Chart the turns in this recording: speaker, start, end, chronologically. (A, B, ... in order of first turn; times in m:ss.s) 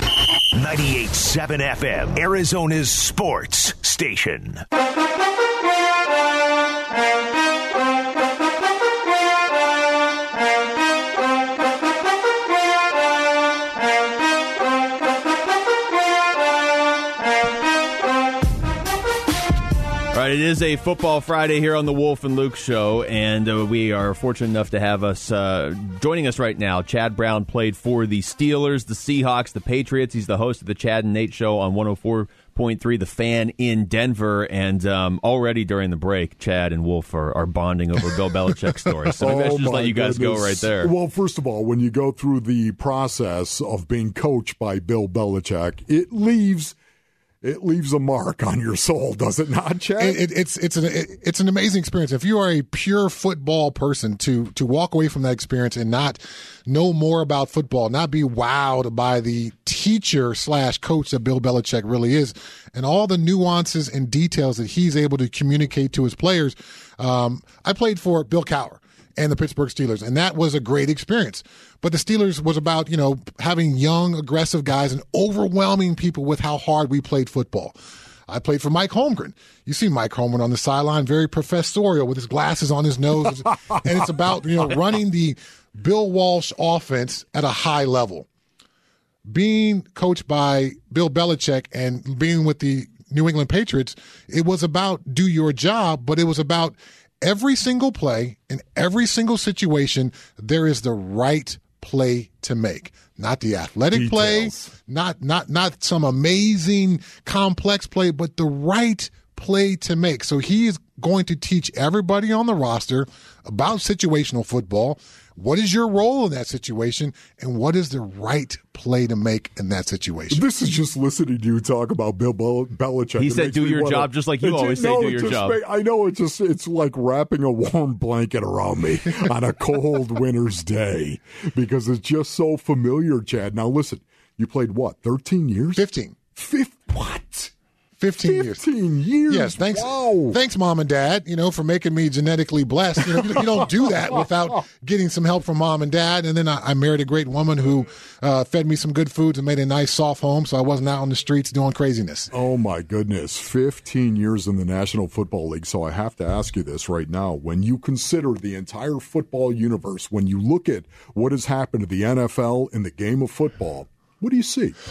0:00.5-0:04.6 A
0:20.1-0:40.9 B
0:39.2-0:46.8 C
0:47.4-0:50.2 C
0:50.0-1:17.8 D
1:18.3-1:28.3 D
1:29.3-2:00.4 D
1:43.9-1:44.7 C
2:00.3-2:15.8 C
2:03.2-2:05.6 B
2:15.8-2:16.2 D
2:16.4-2:17.5 C
2:18.0-2:18.6 D
2:18.2-2:20.4 C
2:19.3-2:32.3 D
2:32.3-2:44.8 C